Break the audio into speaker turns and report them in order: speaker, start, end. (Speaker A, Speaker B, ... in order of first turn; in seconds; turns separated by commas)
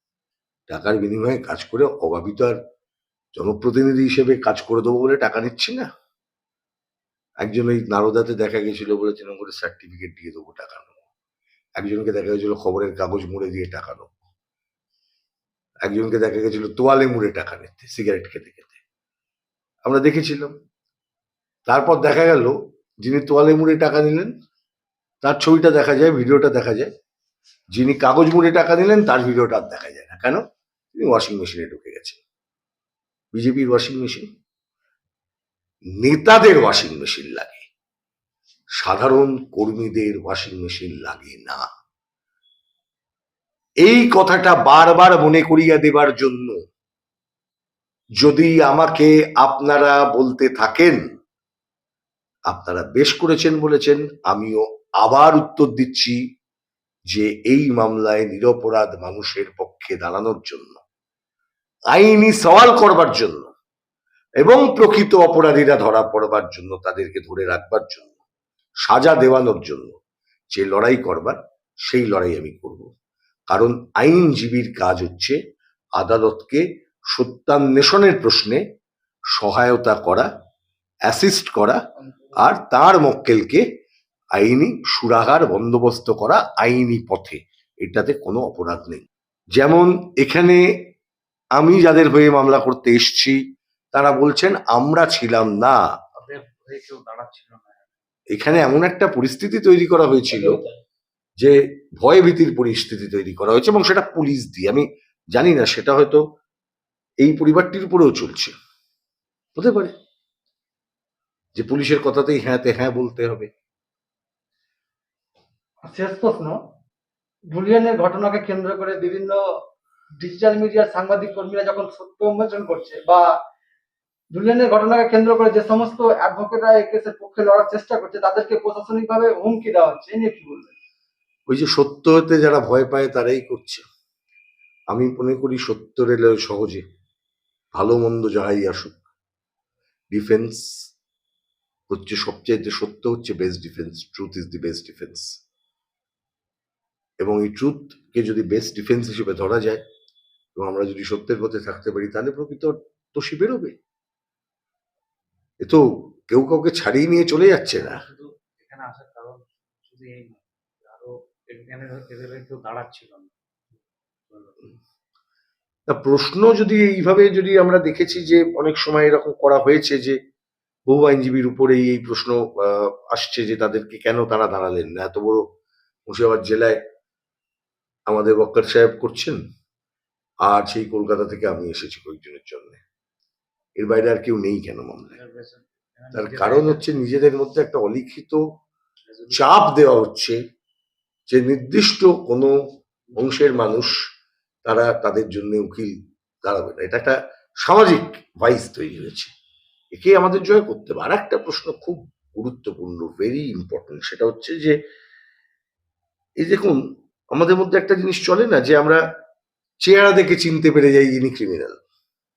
Speaker A: 0.7-2.6, Speaker A: 3.4-5.9, Speaker A: 7.4-10.9, Speaker A: 11.8-14.1, Speaker A: 15.9-18.8, Speaker A: 19.8-20.5, Speaker A: 21.7-24.3, Speaker A: 25.2-26.9, Speaker A: 27.8-30.4, Speaker A: 30.9-32.2, Speaker A: 33.3-34.3, Speaker A: 36.0-37.7, Speaker A: 38.8-41.6, Speaker A: 43.8-46.6, Speaker A: 48.2-51.0, Speaker A: 52.5-56.2, Speaker A: 57.1-60.8, Speaker A: 61.9-63.5, Speaker A: 64.4-68.1, Speaker A: 68.9-70.0, Speaker A: 70.5-72.9, Speaker A: 73.5-75.4, Speaker A: 76.0-78.6, Speaker A: 79.4-80.3, Speaker A: 81.1-81.8, Speaker A: 82.4-83.6, Speaker A: 84.4-90.6, Speaker A: 91.6-93.4, Speaker A: 93.9-95.8, Speaker B: 96.2-97.9, Speaker A: 98.3-100.6, Speaker B: 100.3-100.7, Speaker A: 101.4-106.2, Speaker A: 107.2-108.5, Speaker A: 109.6-109.9, Speaker A: 111.6-113.5, Speaker C: 115.9-116.6, Speaker C: 117.5-119.4, Speaker C: 120.2-123.3, Speaker C: 124.3-130.7, Speaker A: 131.5-133.8, Speaker A: 134.9-136.8, Speaker A: 137.8-139.0, Speaker A: 140.1-140.6, Speaker A: 141.9-145.3, Speaker A: 147.2-149.8, Speaker A: 150.6-153.8, Speaker A: 155.6-158.0, Speaker B: 157.9-163.3, Speaker B: 164.3-164.7, Speaker A: 165.9-170.2, Speaker A: 170.9-175.4, Speaker A: 176.1-176.8, Speaker A: 178.1-179.4, Speaker A: 180.4-182.8, Speaker A: 183.8-185.1, Speaker B: 185.1-186.8, Speaker A: 186.1-188.4, Speaker B: 189.1-189.4, Speaker A: 189.3-190.4, Speaker A: 191.3-192.6, Speaker B: 193.1-193.8, Speaker A: 193.2-194.0, Speaker A: 194.6-199.3, Speaker A: 199.9-204.8, Speaker A: 206.4-206.8, Speaker A: 207.3-209.0, Speaker A: 209.8-211.8